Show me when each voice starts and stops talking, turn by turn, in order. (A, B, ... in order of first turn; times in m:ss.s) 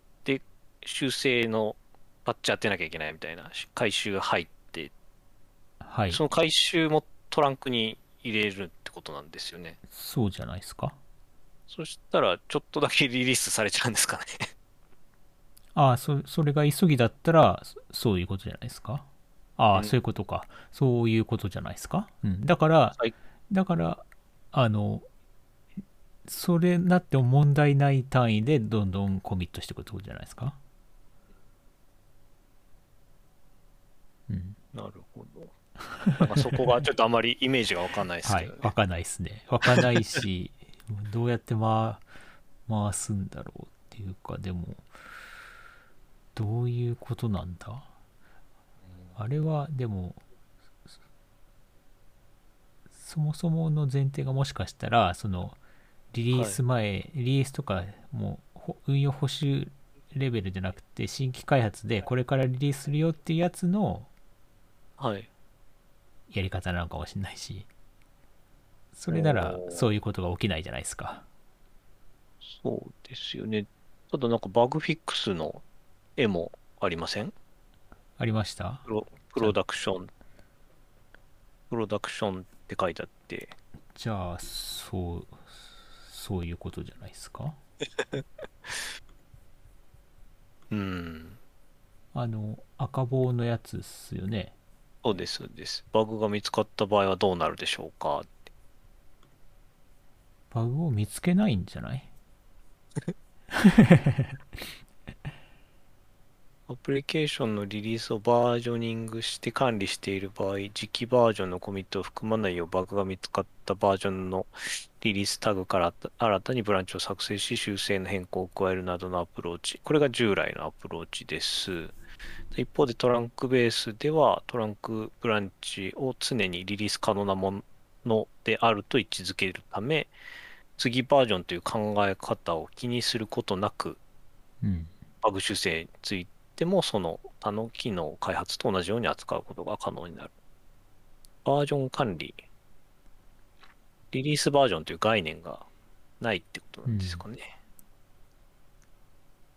0:00.2-0:04.9 A
0:05.8-0:06.2 B
0:06.1-0:09.8 A
0:09.9-0:11.0 B
0:11.7-0:14.4 A
0:15.7-0:25.0 B
0:26.3-0:30.6 B
0:34.3-0:34.6 B
0:34.7-0:35.5 A
0:35.8-0:36.4 B
0:36.2-0:38.7 A
0:38.2-0:42.0 B
0:42.7-0:44.9 B
0:46.3-0:47.9 B
0:49.2-0:50.2 B
0:53.0-0:55.6 B
0:56.1-1:04.1 B
0:56.3-0:56.6 A
1:05.0-1:05.3 A
1:06.3-1:07.7 B
1:08.9-1:11.2 B
1:09.1-1:09.8 A
1:12.4-1:15.6 A
1:16.2-1:17.3 A
1:18.2-1:18.9 B
1:18.9-1:20.1 A
1:21.7-1:23.6 A
1:23.9-1:27.6 B
1:30.7-1:31.4 A
1:32.1-1:34.6 B
1:35.0-1:38.4 A
1:40.5-1:42.1 B
1:43.5-1:44.4 B
1:46.7-2:02.0 A
2:02.5-2:10.1 A
2:10.8-2:14.0 A
2:14.6-2:14.9 B
2:15.2-2:20.3 A
2:21.4-2:22.4 A
2:24.1-2:25.7 A
2:26.2-2:27.5 A
2:26.9-2:27.2 B